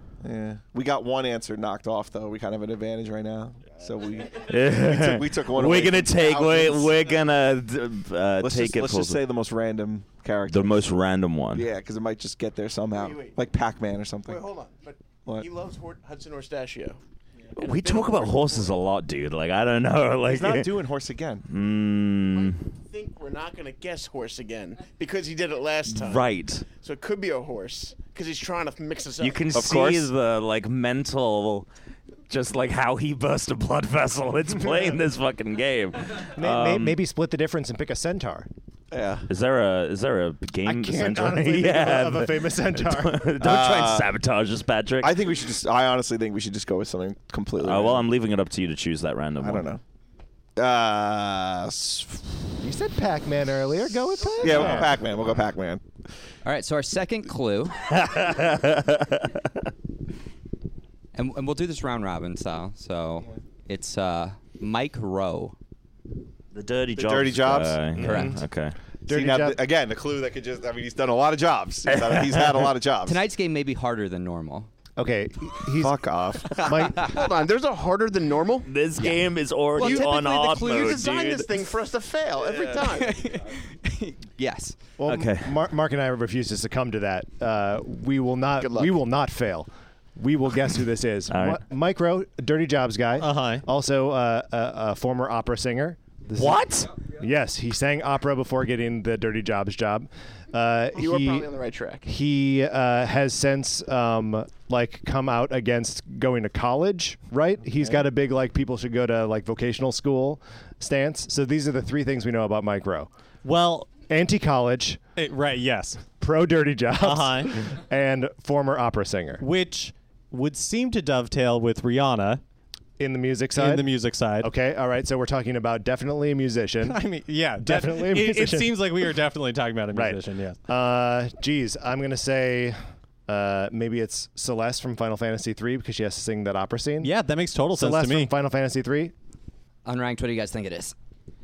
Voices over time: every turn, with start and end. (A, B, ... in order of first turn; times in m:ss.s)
0:00.2-0:07.0 A
0:04.4-0:09.2 B
0:08.4-0:10.9 A
0:10.5-0:11.7 B
0:11.5-0:14.4 A
0:13.0-0:13.3 C
0:14.3-0:17.0 C
0:17.6-0:18.7 C
0:17.6-0:20.7 B
0:20.2-0:21.4 A
0:21.5-0:22.6 B
0:22.3-0:29.4 C
0:25.9-0:26.6 B
0:29.2-0:31.7 B
0:29.5-0:30.1 A
0:32.3-0:37.0 B
0:36.4-0:38.5 D
0:38.9-0:39.3 A
0:39.3-0:45.2 B
0:40.6-0:43.3 D
0:43.4-0:44.1 A
0:45.0-0:48.1 A
0:47.6-0:49.7 B
0:49.4-0:49.8 A
0:50.6-0:52.5 A
0:52.6-0:55.0 D
0:54.4-0:55.8 A
0:56.4-0:57.8 E
0:57.8-0:59.5 B
1:01.1-1:05.5 E
1:06.5-1:08.8 B
1:07.0-1:07.8 A
1:08.0-1:08.4 D
1:08.0-1:08.4 E
1:09.1-1:09.6 D
1:09.1-1:13.2 A
1:11.9-1:12.7 B
1:13.0-1:14.7 E
1:15.0-1:16.0 D
1:15.8-1:16.6 A
1:16.5-1:17.1 D
1:16.9-1:18.7 C
1:18.6-1:21.7 B
1:19.7-1:21.0 E
1:19.8-1:23.2 C
1:22.8-1:24.8 E
1:25.0-1:41.5 D
1:25.1-1:25.6 B
1:28.6-1:29.0 C
1:31.3-1:31.6 B
1:33.2-1:33.7 F
1:36.3-1:36.9 B
1:40.9-1:42.1 C
1:42.0-1:53.1 D
1:53.4-1:54.1 F
1:54.0-1:55.0 D
1:55.2-1:56.2 F
1:56.1-1:59.4 D
1:56.9-1:57.7 F
1:59.4-2:02.4 F
2:03.0-2:07.0 D
2:03.5-2:04.5 F
2:06.8-2:10.6 F
2:07.6-2:08.9 D
2:09.9-2:17.1 D
2:17.0-2:18.3 F
2:17.7-2:19.1 D
2:19.8-2:20.9 E